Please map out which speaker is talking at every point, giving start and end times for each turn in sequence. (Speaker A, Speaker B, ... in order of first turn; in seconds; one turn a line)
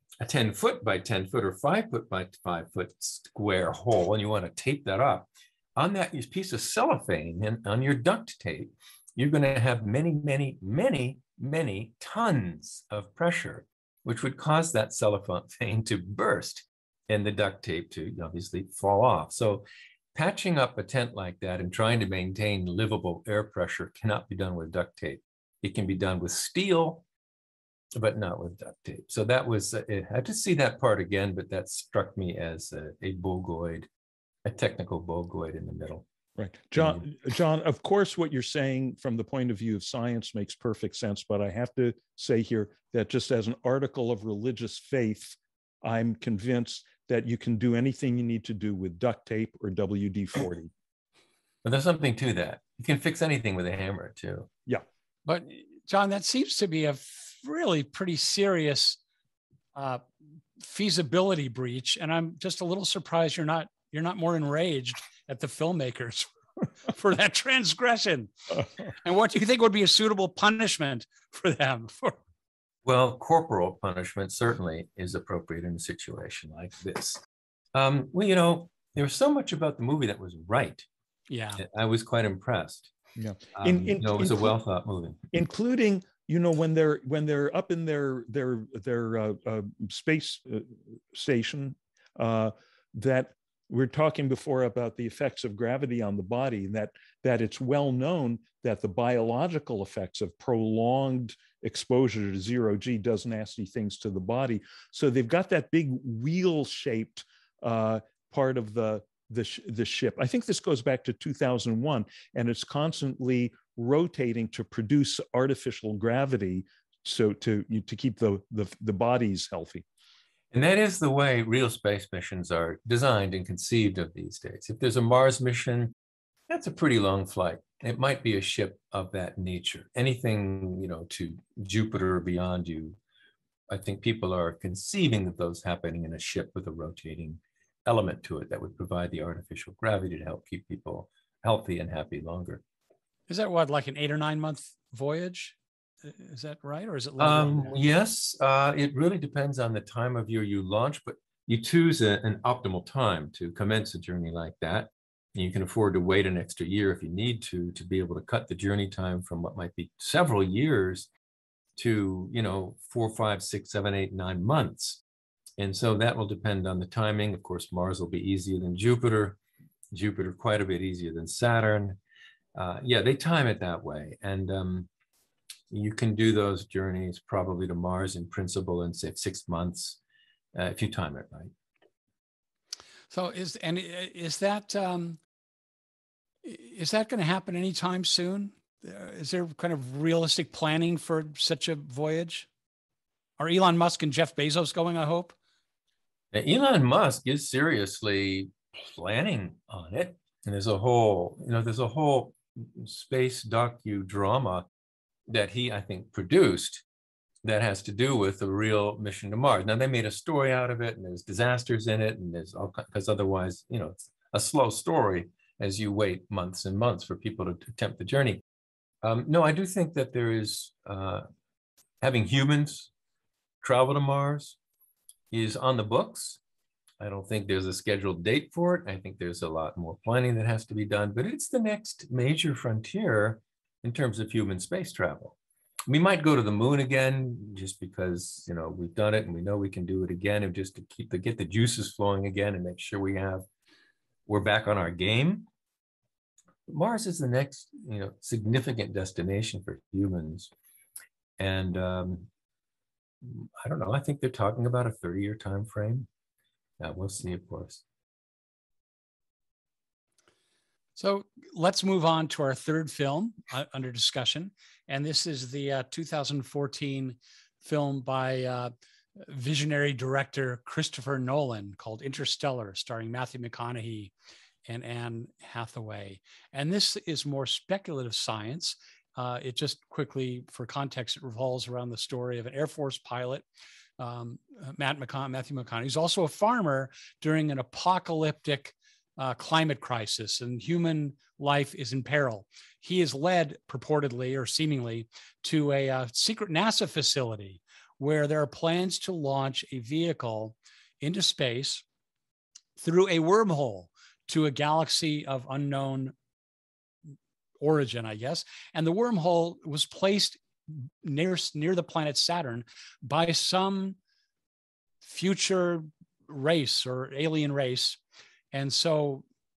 Speaker A: 0.2-27.0
Speaker A: 27.9-33.9
Speaker A: 34.4-36.0
Speaker B: 36.4-50.7
Speaker A: 36.8-37.0
Speaker A: 51.6-54.5
Speaker C: 55.2-59.0
Speaker C: 59.8-60.0
Speaker C: 60.6-66.3
Speaker C: 66.8-72.2
Speaker A: 72.8-77.2
Speaker A: 77.8-80.9
Speaker C: 81.3-81.6
Speaker A: 81.6-82.9
Speaker B: 83.2-84.5
Speaker A: 83.5-85.2
Speaker B: 85.3-119.8
Speaker A: 120.5-125.9
Speaker A: 126.5-133.0
Speaker A: 133.7-142.6
Speaker C: 143.3-147.8
Speaker A: 147.2-161.1
Speaker A: 161.8-165.0
Speaker A: 165.6-169.4
Speaker A: 169.9-172.0
Speaker A: 172.6-174.9
Speaker A: 175.7-180.0
Speaker A: 180.6-181.5
Speaker C: 183.1-185.2
Speaker C: 186.4-192.5
Speaker C: 193.4-195.3
Speaker A: 196.3-204.7
Speaker A: 205.3-206.8
Speaker A: 207.4-218.4
Speaker A: 219.0-221.2
Speaker A: 222.0-222.9
Speaker A: 223.6-224.6
Speaker A: 225.3-226.4
Speaker A: 227.0-235.4
Speaker A: 235.9-243.4
Speaker A: 244.3-245.5
Speaker A: 246.7-250.5
Speaker A: 251.4-252.3
Speaker A: 253.2-256.1
Speaker A: 256.8-257.8
Speaker C: 261.0-274.1
Speaker C: 274.7-283.4
Speaker C: 284.0-301.8
Speaker C: 302.8-306.1
Speaker C: 307.6-310.4
Speaker C: 311.0-314.0
Speaker C: 315.0-318.0
Speaker C: 318.5-319.2